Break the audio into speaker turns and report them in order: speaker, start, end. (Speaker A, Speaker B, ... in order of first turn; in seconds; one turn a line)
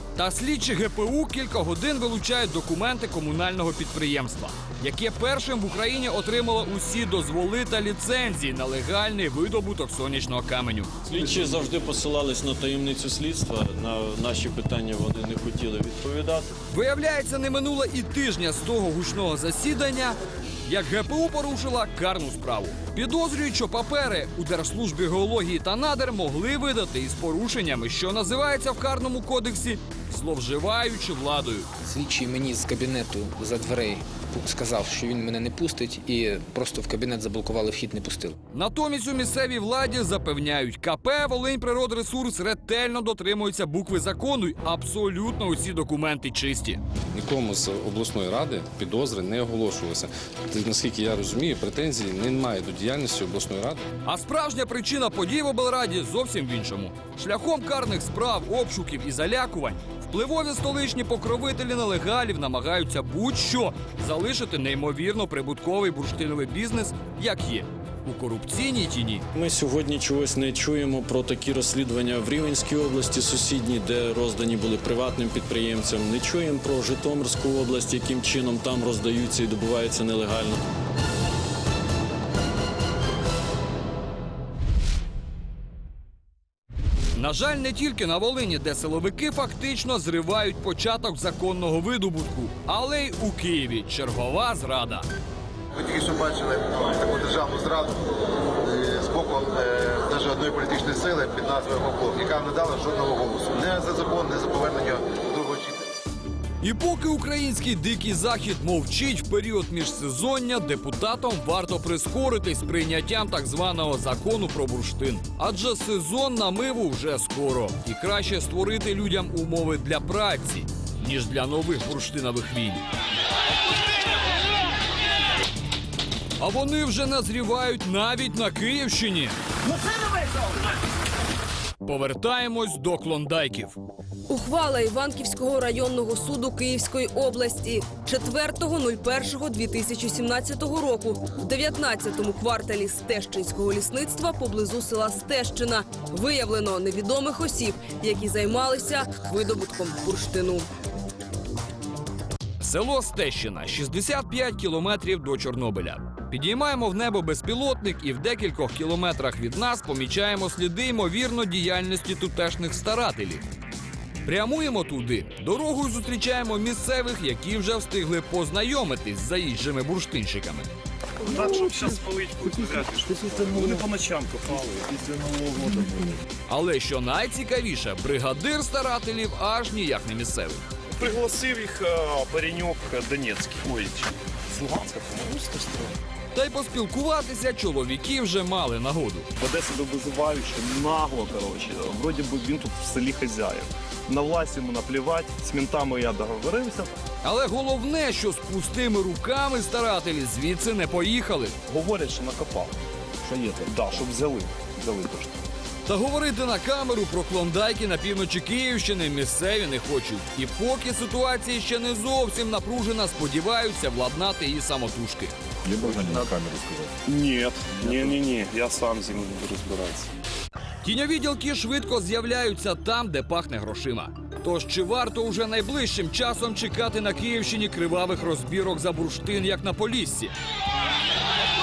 Speaker A: 0.2-10.9
Speaker B: 11.1-16.5
Speaker A: 16.7-31.7
Speaker C: 31.9-38.4
Speaker A: 38.5-46.8
Speaker D: 47.1-53.9
Speaker A: 54.0-69.2
Speaker B: 69.3-80.6
Speaker A: 87.2-95.1
Speaker E: 95.8-98.0
Speaker E: 98.7-105.8
Speaker A: 106.6-122.8
Speaker A: 126.4-129.4
Speaker A: 131.8-133.8
Speaker F: 134.3-150.7
Speaker A: 152.6-163.4
Speaker A: 164.2-170.7
Speaker G: 171.2-176.2
Speaker A: 176.5-180.6
Speaker G: 180.9-185.9
Speaker A: 186.3-189.3
Speaker G: 189.4-196.9
Speaker A: 197.2-201.6
Speaker G: 201.7-205.4
Speaker A: 205.9-215.3
Speaker G: 215.7-216.4
Speaker G: 217.1-220.1
Speaker A: 220.8-230.3